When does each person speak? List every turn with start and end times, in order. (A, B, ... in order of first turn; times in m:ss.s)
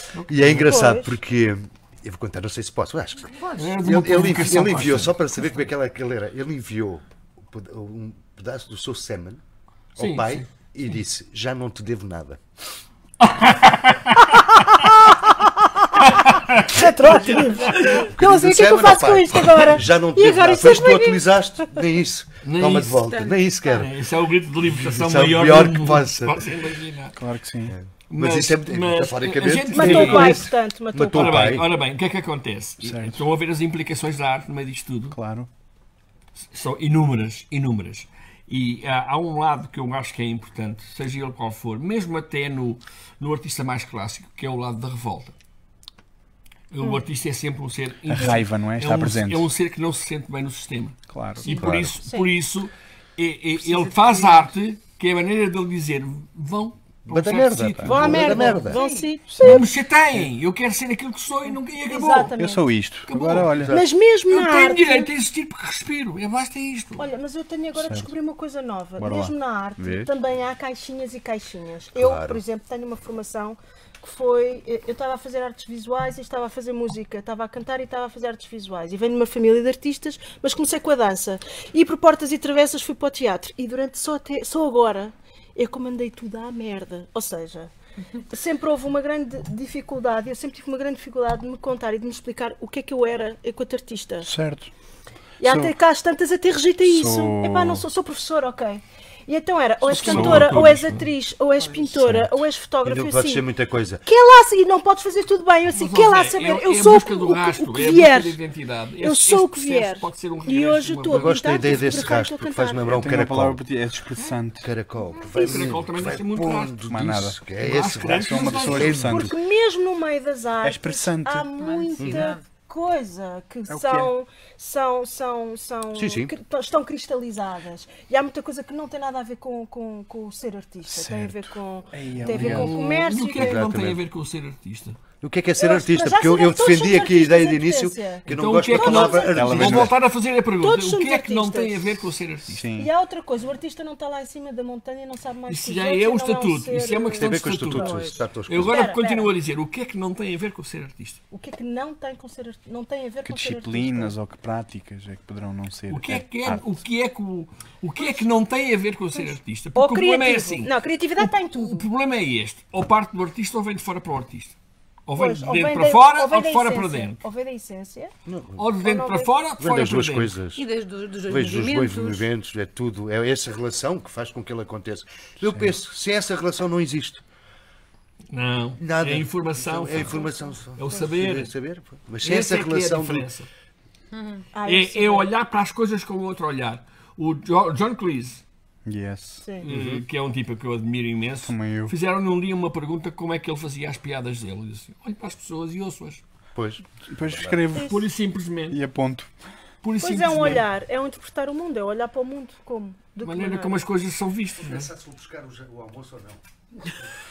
0:00.2-0:00.8 A
0:00.3-0:09.4 B
0:00.6-0:01.2 C
0:03.4-0:03.8 D
0:03.6-0:05.2 A
0:10.0-0:10.5 A
0:10.0-0:12.4 B
0:13.2-0:14.9 A
0:16.0-0:18.1 A
0:16.7-0:21.2 C
0:17.7-0:24.0 B
0:22.4-0:23.0 A
0:23.0-0:23.4 D
0:23.7-0:27.2 A
0:24.6-0:26.5 B
0:27.2-0:27.8 E
0:27.7-0:31.7 B
0:28.1-0:30.5 A
0:29.7-0:31.6 C
0:31.1-0:35.2 A
0:32.8-0:33.2 E
0:35.1-0:35.5 E
0:36.4-0:45.4 A
0:46.7-0:58.7 A
0:48.1-0:49.5 E
0:51.1-0:51.5 E
0:51.5-0:52.3 C
0:51.6-0:52.0 B
0:53.6-0:54.5 C
0:57.1-0:58.8 B
0:57.8-0:59.7 C
0:58.7-0:59.1 D
0:59.3-0:59.7 E
0:59.4-1:02.3 A
1:01.8-1:02.7 C
1:02.4-1:03.7 E
1:03.1-1:03.7 A
1:03.6-1:03.8 B
1:03.7-1:05.1 C
1:04.3-1:07.1 A
1:07.0-1:27.7 C
1:07.8-1:08.1 E
1:09.0-1:10.1 E
1:12.0-1:12.4 B
1:28.3-1:34.3 C
1:34.2-1:34.7 E
1:35.4-1:43.5 C
1:35.4-1:35.7 E
1:36.8-1:37.8 E
1:39.9-1:40.7 E
1:39.9-1:41.1 A
1:41.9-1:42.3 E
1:42.8-1:44.0 B
1:44.0-1:48.4 C
1:45.7-1:52.0 A
1:49.0-1:52.9 C
1:51.1-1:53.6 B
1:52.9-1:54.7 E
1:54.6-1:59.4 B
1:55.3-1:55.8 C
1:55.3-1:56.9 A
1:56.9-1:59.4 E
1:57.6-1:59.2 A
1:58.9-2:13.7 C
2:00.6-2:01.5 E
2:01.6-2:02.4 D
2:02.0-2:02.3 B
2:03.7-2:04.1 E
2:06.0-2:06.3 B
2:10.9-2:12.7 E
2:12.3-2:15.0 A
2:13.3-2:14.0 B
2:15.2-2:19.9 B
2:15.6-2:19.5 C
2:18.3-2:22.7 A
2:19.3-2:20.0 E
2:20.6-2:21.9 C
2:22.5-2:22.9 E
2:22.7-2:29.3 C
2:25.5-2:31.2 A
2:27.1-2:28.9 B
2:31.3-2:34.1 C
2:33.2-2:36.8 E
2:35.9-2:44.6 A
2:39.1-2:41.9 C
2:45.1-2:47.2 A
2:45.2-2:48.1 C
2:48.3-2:48.7 B
2:48.6-2:50.3 A
2:48.8-2:49.4 C
2:49.6-2:50.6 B
2:50.6-2:52.3 D
2:51.3-2:57.2 B
2:58.3-3:00.2 A
2:58.8-3:03.3 B
3:00.0-3:01.1 C
3:00.8-3:01.5 A
3:02.2-3:03.5 A
3:04.1-3:04.4 D
3:04.5-3:05.3 C
3:04.6-3:08.4 A
3:08.9-3:09.5 E
3:09.4-3:09.7 C
3:09.6-3:16.2 A
3:09.6-3:10.0 B
3:11.4-3:11.9 E
3:16.6-3:17.6 B
3:17.1-3:18.0 E
3:17.8-3:18.8 A
3:17.8-3:18.0 C
3:18.7-3:19.3 E
3:19.8-3:20.7 A
3:20.0-3:23.9 C
3:23.2-3:24.9 A
3:24.6-3:26.4 B